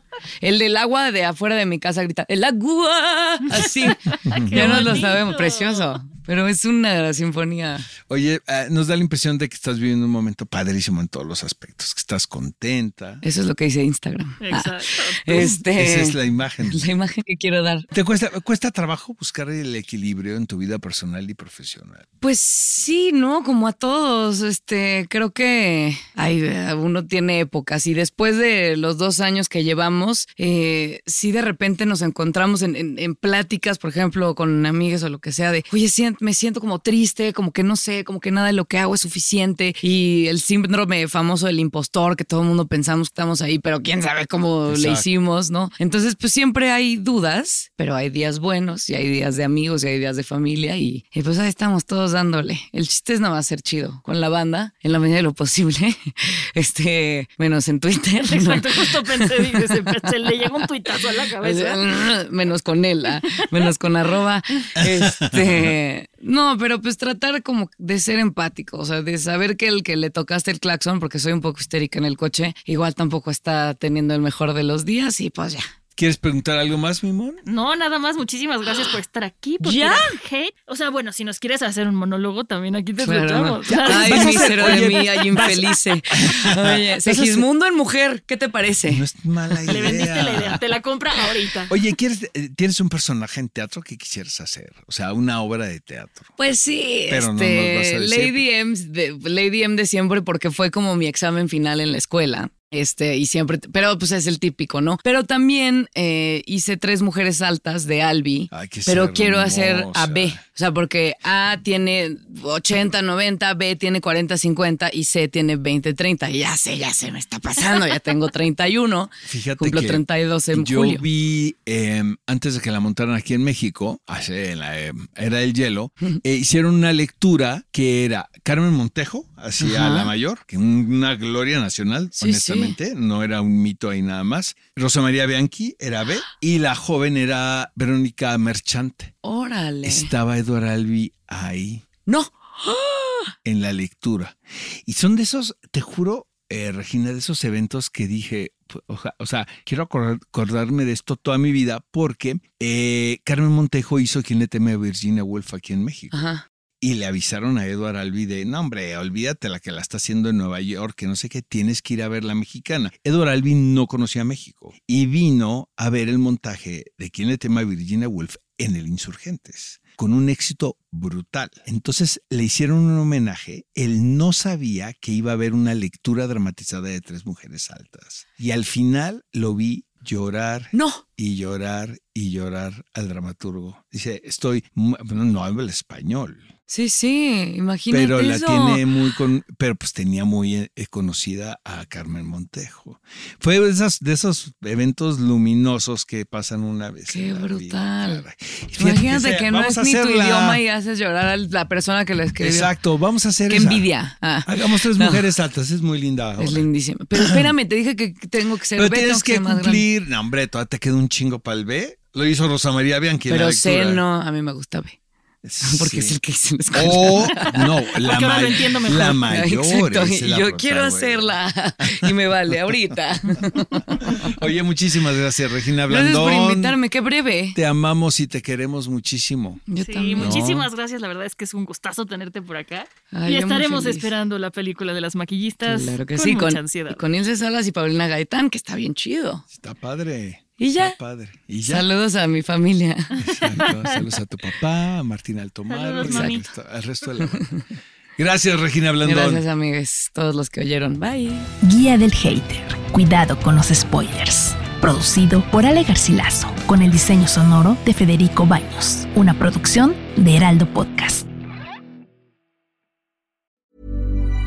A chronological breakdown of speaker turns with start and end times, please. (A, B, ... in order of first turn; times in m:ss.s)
0:00.4-0:07.9 A
0:03.7-0:05.9 B
0:04.2-0:05.0 C
0:08.1-0:13.2 C
0:13.2-0:17.9 A
0:14.4-0:15.6 B
0:15.3-0:16.9 C
0:17.9-0:22.1 C
0:22.2-1:00.1 A
0:44.7-0:45.0 C
0:58.2-1:01.8 B
1:01.4-1:15.7 A
1:04.8-1:05.7 C
1:16.0-1:17.4 C
1:17.4-1:24.9 B
1:19.6-1:20.2 A
1:23.0-1:29.0 A
1:23.7-1:27.4 C
1:28.9-1:30.6 C
1:29.7-1:31.7 B
1:31.7-1:36.3 C
1:36.4-2:01.0 A
1:37.1-1:38.4 C
1:48.5-1:50.4 C
1:59.2-2:19.1 C
2:09.6-2:10.1 A
2:12.2-2:12.8 A
2:19.2-2:20.1 A
2:19.8-2:21.8 C
2:22.1-2:23.3 A
2:23.4-2:36.2 C
2:36.1-2:36.4 A
2:36.8-3:06.5 C
3:00.7-3:01.0 A
3:06.7-3:08.8 A
3:07.9-3:20.6 C
3:17.1-3:18.2 A
3:18.8-3:22.7 A
3:22.4-3:23.9 C
3:23.5-3:25.2 A
3:24.4-3:27.5 C
3:26.4-3:29.8 A
3:28.8-3:34.0 C
3:33.3-3:35.0 A
3:35.4-3:36.2 C
3:35.6-3:37.7 A
3:36.7-3:42.7 C
3:38.0-3:39.2 B
3:39.3-3:44.3 A
3:44.0-3:46.8 C
3:45.9-3:47.6 A
3:47.5-3:49.6 C
3:49.7-3:50.5 A
3:49.8-3:57.0 B
3:50.2-3:50.7 C
3:53.1-3:54.1 A
3:55.6-3:59.4 A
3:59.5-4:01.9 C
4:00.6-4:01.0 A
4:01.6-4:03.2 A
4:03.2-4:07.5 C
4:05.7-4:06.4 B
4:06.0-4:06.3 A
4:08.2-4:09.4 C
4:09.0-4:11.5 A
4:11.6-4:21.3 D